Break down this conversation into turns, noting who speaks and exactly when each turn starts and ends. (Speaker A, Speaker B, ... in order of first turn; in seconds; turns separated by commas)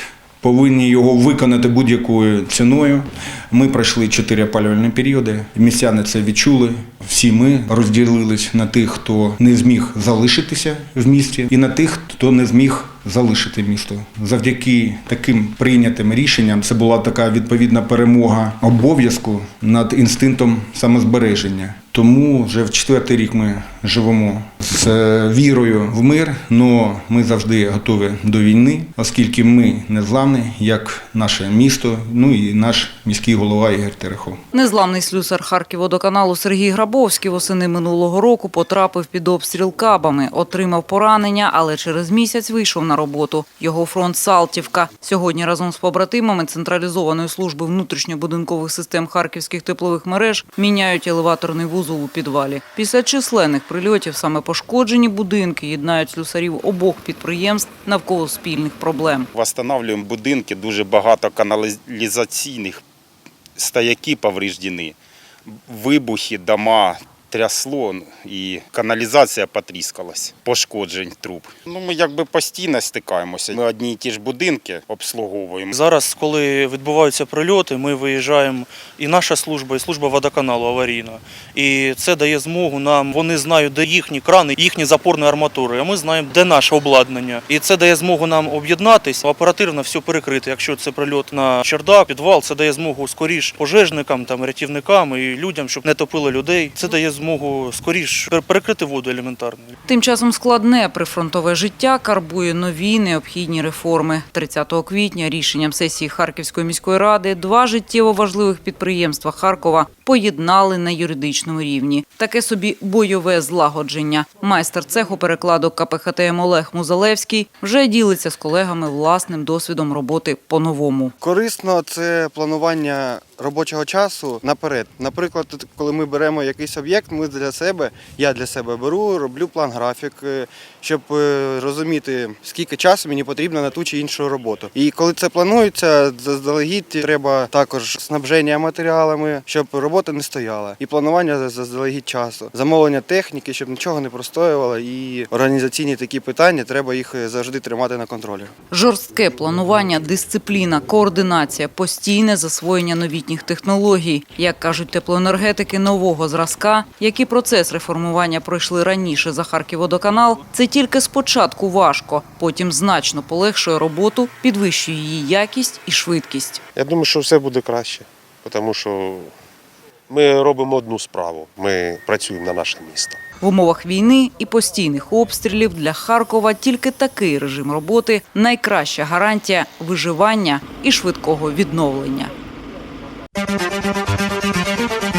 Speaker A: 0.4-34.4, Speaker B: 34.5-59.3, Speaker C: 59.3-62.8, Speaker C: 63.6-65.0, Speaker C: 65.5-75.7, Speaker D: 75.7-99.7, Speaker B: 99.9-121.1, Speaker E: 121.2-148.5, Speaker B: 148.7-166.6, Speaker F: 166.8-169.3, Speaker F: 170.1-173.2, Speaker B: 173.4-182.3